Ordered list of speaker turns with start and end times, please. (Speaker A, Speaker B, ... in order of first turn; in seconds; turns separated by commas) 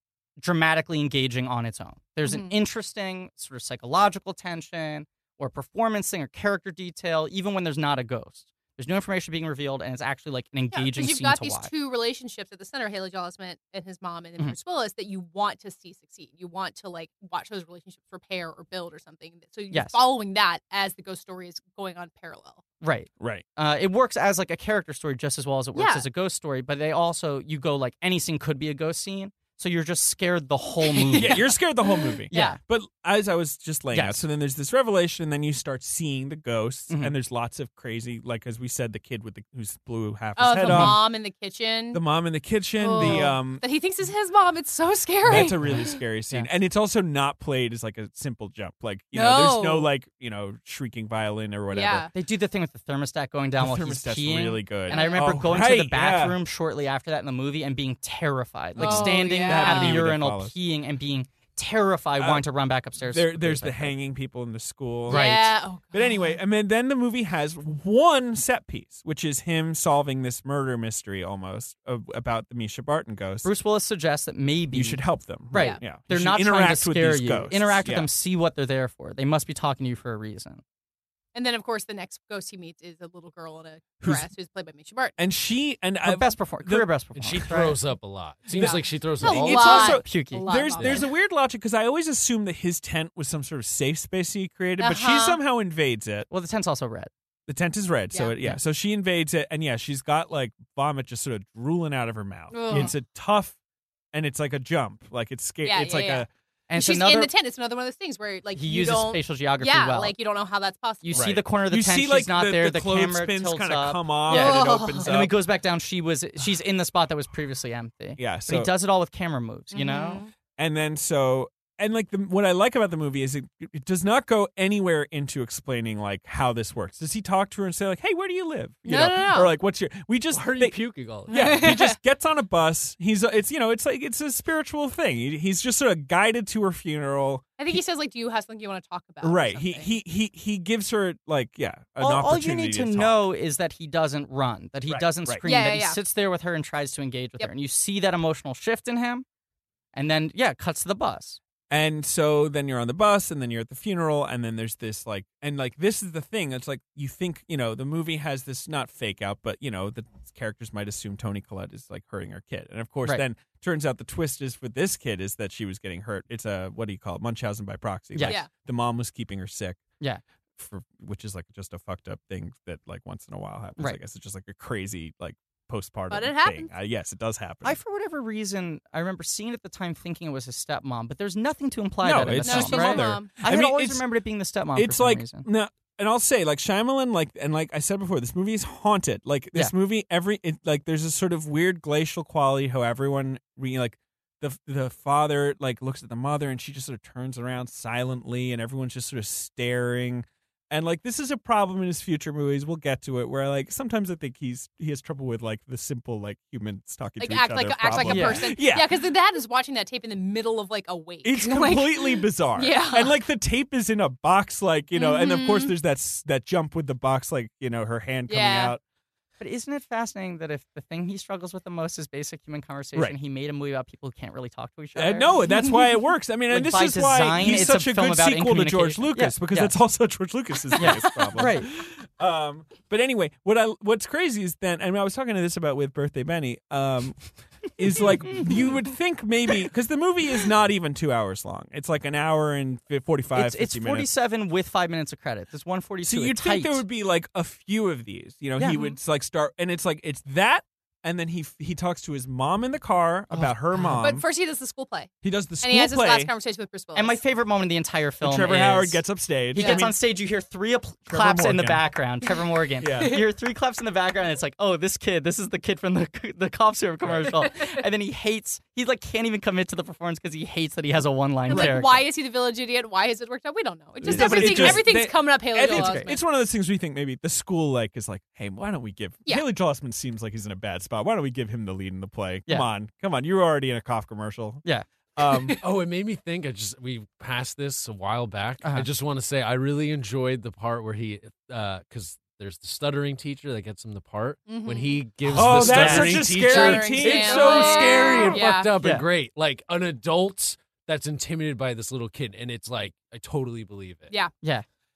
Speaker A: 0.4-11.7, Speaker B: 2.2-2.5, Speaker B: 10.7-22.6, Speaker A: 19.7-20.0, Speaker A: 22.8-31.4, Speaker B: 25.7-26.1, Speaker B: 30.9-32.6, Speaker C: 31.1-41.0, Speaker A: 32.3-32.6, Speaker A: 33.9-34.2, Speaker B: 40.4-42.0, Speaker A: 40.7-41.0, Speaker C: 41.9-43.6, Speaker B: 42.8-46.0, Speaker A: 43.0-43.3, Speaker C: 45.3-52.1, Speaker A: 45.3-46.5, Speaker B: 49.1-49.9, Speaker B: 51.7-52.1, Speaker A: 52.1-63.9, Speaker C: 53.6-56.4, Speaker B: 54.9-55.5, Speaker C: 58.8-60.5, Speaker B: 58.8-60.0, Speaker C: 62.2-62.4, Speaker C: 63.0-65.3, Speaker B: 65.1-66.4, Speaker A: 65.1-65.5, Speaker C: 65.9-73.5, Speaker A: 73.4-80.6, Speaker C: 74.7-78.1, Speaker B: 75.5-75.8, Speaker B: 81.3-85.2, Speaker C: 84.0-84.3, Speaker C: 85.2-87.5, Speaker A: 86.0-87.8, Speaker D: 87.2-90.0, Speaker C: 88.5-96.3, Speaker B: 88.6-91.1, Speaker A: 89.9-90.5, Speaker B: 94.8-95.4, Speaker A: 96.3-97.1, Speaker C: 97.5-103.6, Speaker B: 102.5-102.9, Speaker C: 104.1-106.3, Speaker B: 105.6-111.2, Speaker A: 106.7-107.3, Speaker A: 108.5-110.1, Speaker A: 111.0-120.2, Speaker C: 111.1-115.4, Speaker B: 114.3-115.1, Speaker C: 118.2-118.7, Speaker B: 119.7-120.3, Speaker C: 120.6-137.8, Speaker B: 128.8-129.5, Speaker D: 130.3-131.7, Speaker B: 131.3-131.9, Speaker B: 137.6-139.9, Speaker C: 139.2-143.2, Speaker A: 142.0-149.2, Speaker C: 144.9-145.4, Speaker B: 145.4-146.0, Speaker A: 149.9-151.4, Speaker C: 151.7-169.8, Speaker A: 168.1-168.4, Speaker B: 168.2-168.5, Speaker C: 170.6-177.8, Speaker B: 176.1-176.7, Speaker A: 177.6-185.5, Speaker C: 182.0-184.0, Speaker B: 182.4-183.3, Speaker C: 184.7-209.0, Speaker B: 207.2-213.1, Speaker A: 208.0-208.4, Speaker C: 211.2-218.8, Speaker B: 214.9-215.7, Speaker B: 218.3-218.8, Speaker A: 219.4-225.4, Speaker C: 224.9-244.1, Speaker A: 226.5-229.8, Speaker A: 230.8-231.7, Speaker A: 243.3-246.8, Speaker C: 246.0-254.2, Speaker A: 248.6-248.8, Speaker B: 248.7-249.0, Speaker A: 253.3-254.0, Speaker B: 254.0-257.2, Speaker C: 255.2-256.3, Speaker A: 256.9-272.1, Speaker C: 258.2-259.9, Speaker B: 259.5-259.9, Speaker C: 261.1-261.8, Speaker C: 262.8-263.2, Speaker B: 271.5-276.2, Speaker C: 274.0-284.6, Speaker A: 274.0-274.9, Speaker A: 275.7-276.1, Speaker C: 285.1-285.6, Speaker D: 285.6-304.1, Speaker A: 288.6-288.9, Speaker B: 294.5-295.0, Speaker A: 295.2-296.3, Speaker C: 295.3-298.4, Speaker B: 295.8-298.7, Speaker A: 297.4-299.0